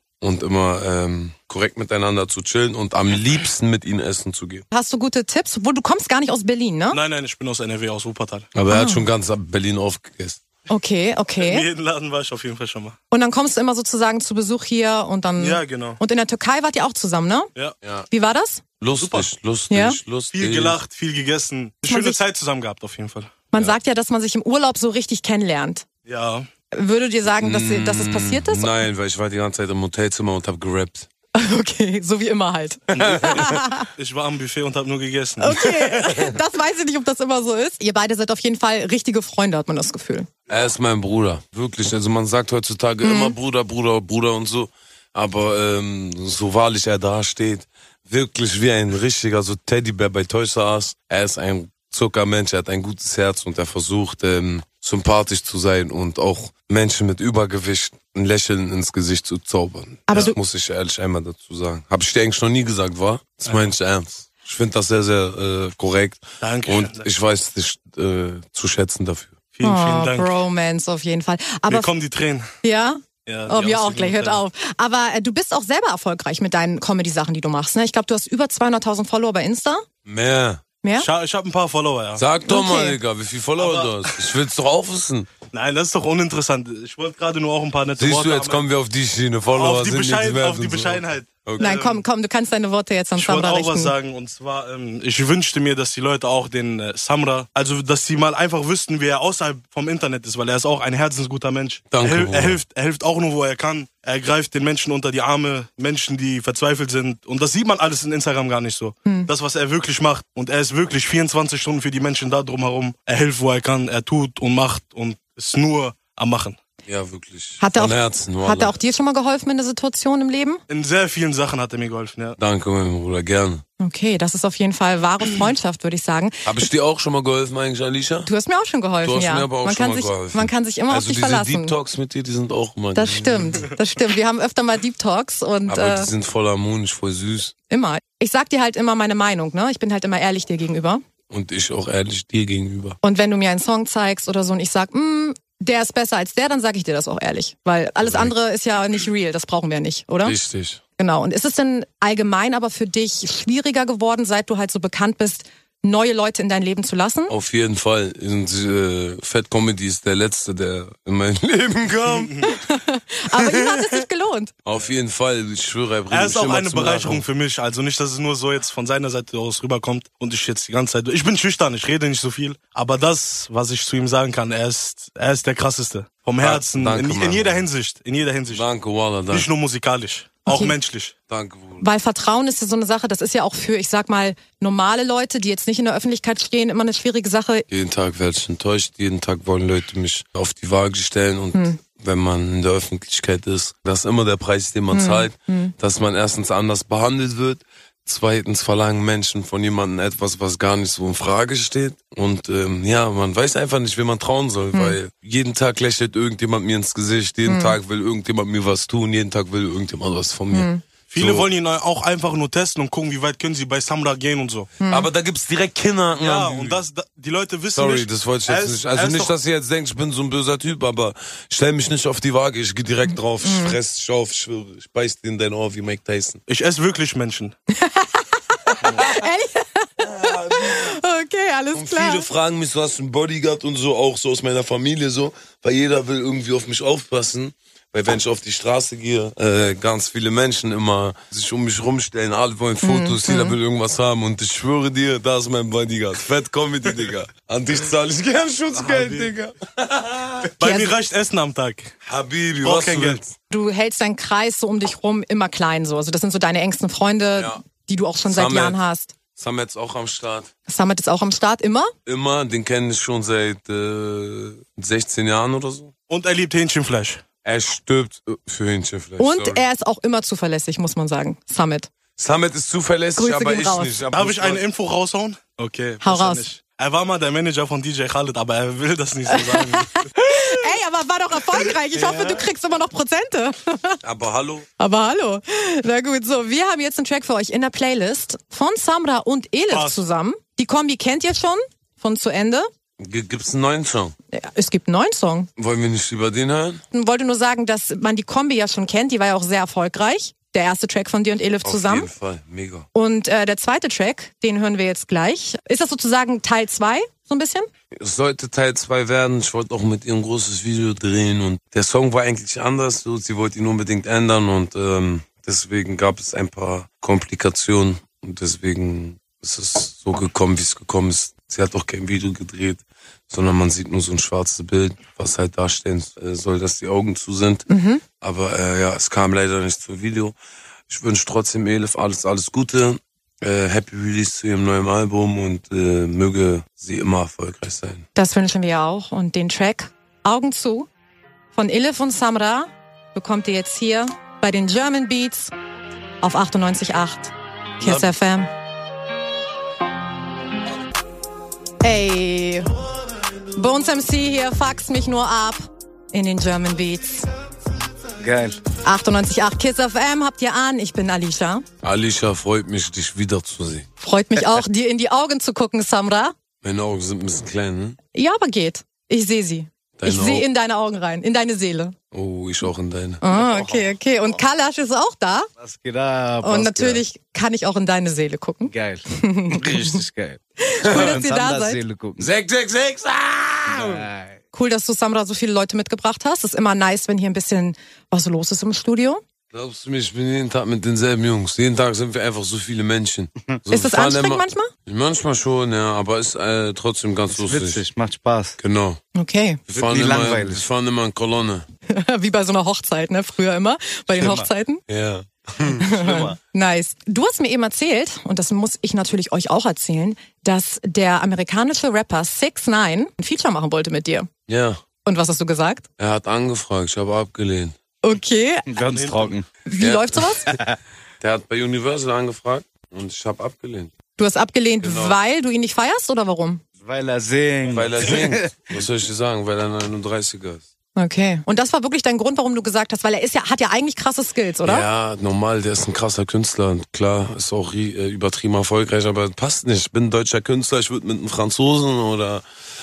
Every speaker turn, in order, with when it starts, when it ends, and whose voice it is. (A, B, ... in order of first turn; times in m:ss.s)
0:00.2-0:04.6 A
0:04.7-0:07.0 B
0:06.9-0:08.5 C
0:08.5-0:10.4 A
0:08.7-0:09.0 B
0:10.7-0:11.7 B
0:11.4-0:13.0 C
0:13.1-0:17.5 B
0:15.4-0:16.0 C
0:17.8-0:18.1 A
0:18.1-0:18.6 B
0:18.8-0:20.8 A
0:18.9-0:19.3 C
0:19.7-0:20.0 B
0:20.3-0:23.5 C
0:21.9-0:22.2 B
0:23.5-0:25.8 B
0:26.0-0:26.5 C
0:26.7-0:28.8 B
0:27.4-0:31.1 A
0:31.3-0:33.9 B
0:33.0-0:33.3 A
0:33.9-0:36.2 C
0:35.4-0:40.3 B
0:40.5-1:09.4 A
0:43.0-0:43.4 B
1:00.1-1:00.4 B
1:06.4-1:07.1 C
1:09.5-1:10.3 C
1:09.6-1:11.9 B
1:11.7-1:12.5 C
1:12.6-1:19.8 B
1:13.2-1:14.4 C
1:20.0-1:20.6 A
1:20.8-1:21.1 B
1:21.0-1:22.2 C
1:22.1-1:25.3 A
1:22.4-1:23.0 B
1:23.6-1:24.3 C
1:25.5-1:28.6 C
1:28.0-1:31.7 A
1:29.5-1:32.0 C
1:31.6-1:33.9 B
1:33.2-1:56.6 C
1:41.9-1:42.6 A
1:56.8-1:58.7 A
1:57.6-2:00.6 B
2:00.7-2:02.4 C
2:02.4-2:03.6 A
2:03.8-2:06.4 B
2:06.4-2:08.3 A
2:08.2-2:11.7 B
2:09.0-2:13.6 A
2:12.9-2:16.1 B
2:15.7-2:17.5 A
2:17.7-2:21.0 B
2:21.3-2:23.0 A
2:23.0-2:30.4 B
2:28.0-2:28.3 A
2:30.2-2:30.8 A
2:31.0-2:37.3 B
2:37.3-2:42.6 A
2:42.1-2:42.4 C
2:42.4-2:44.5 B
2:43.3-2:44.0 A
2:44.6-2:47.2 A
2:46.1-2:58.6 C
2:56.4-2:57.6 A
2:58.5-2:59.5 A
2:59.3-3:01.1 C
3:00.4-3:00.8 B
3:01.3-3:01.9 A
3:01.8-3:07.6 B
3:07.7-3:31.5 A
3:14.9-3:15.7 B
3:24.7-3:25.0 B
3:27.4-3:27.8 B
3:30.5-3:30.8 B
3:31.1-3:34.7 C
3:34.8-3:35.1 B
3:34.9-3:36.8 A
3:36.1-3:39.3 C
3:37.7-3:46.4 A
3:43.4-3:43.8 B
3:46.5-3:47.5 C
3:47.7-3:48.4 B
3:49.0-3:52.2 B
3:49.0-3:49.2 A
3:50.0-3:51.0 A
3:51.7-4:10.5 A
4:02.8-4:03.6 B
4:08.7-4:09.3 C
4:10.6-4:11.9 C
4:10.6-4:10.9 B
4:12.0-4:13.3 A
4:12.6-4:13.2 C
4:13.5-4:19.1 B
4:17.4-4:17.6 A
4:18.2-4:18.8 A
4:19.3-4:20.5 A
4:20.7-4:21.9 B
4:22.0-4:25.9 A
4:26.1-4:27.2 C
4:27.4-4:29.6 A
4:29.2-4:31.9 B
4:32.2-4:34.6 A
4:33.2-4:34.0 B
4:34.1-4:40.1 C
4:36.0-4:36.4 B
4:39.3-4:44.0 B
4:41.9-4:42.4 A
4:44.0-4:44.7 A
4:44.8-4:52.7 B
4:49.7-4:50.0 C
4:53.0-4:54.1 A
4:54.3-4:55.5 B
4:55.6-4:56.8 A
4:56.9-5:02.1 B
5:01.6-5:02.9 A
5:02.9-5:07.7 B
5:07.9-5:27.7 A
5:27.7-5:28.0 B
5:28.2-5:30.4 A
5:30.9-5:38.0 A
5:38.1-5:40.9 B
5:41.5-5:45.5 B
5:46.2-5:48.5 B
5:47.8-5:48.1 C
5:51.8-5:52.7 B
5:53.5-5:57.3 B
5:58.2-5:58.6 D
5:58.8-6:01.6 B
6:01.8-6:03.9 A
6:04.0-6:06.3 B
6:06.6-6:08.0 A
6:08.1-6:11.9 B
6:10.0-6:10.5 A
6:12.1-6:13.8 A
6:13.2-6:15.5 B
6:15.6-6:17.0 D
6:16.4-6:20.0 B
6:18.7-6:22.3 D
6:20.6-6:21.8 B
6:20.8-6:21.2 A
6:22.2-6:24.0 A
6:23.7-6:24.4 D
6:24.5-6:29.2 B
6:29.5-6:37.8 A
6:33.7-6:34.7 B
6:37.3-6:38.6 D
6:38.6-6:39.0 A
6:39.1-6:39.6 B
6:39.7-6:41.6 A
6:39.7-6:40.6 D
6:41.9-6:44.8 B
6:44.2-6:44.5 D
6:44.9-6:46.0 A
6:45.8-6:54.3 B
6:46.0-6:46.4 D
6:54.5-6:54.8 A
6:55.0-6:55.8 B
6:56.0-6:57.7 A
6:58.0-6:58.7 B
6:58.7-6:59.4 D
6:58.9-6:59.3 C
6:59.6-7:00.5 B
6:59.8-7:00.3 A
7:00.5-7:00.8 D
7:01.2-7:03.9 A
7:04.2-7:06.6 B
7:04.8-7:05.2 A
7:06.8-7:08.5 D
7:07.7-7:10.6 A
7:11.0-7:14.8 B
7:14.6-7:22.4 A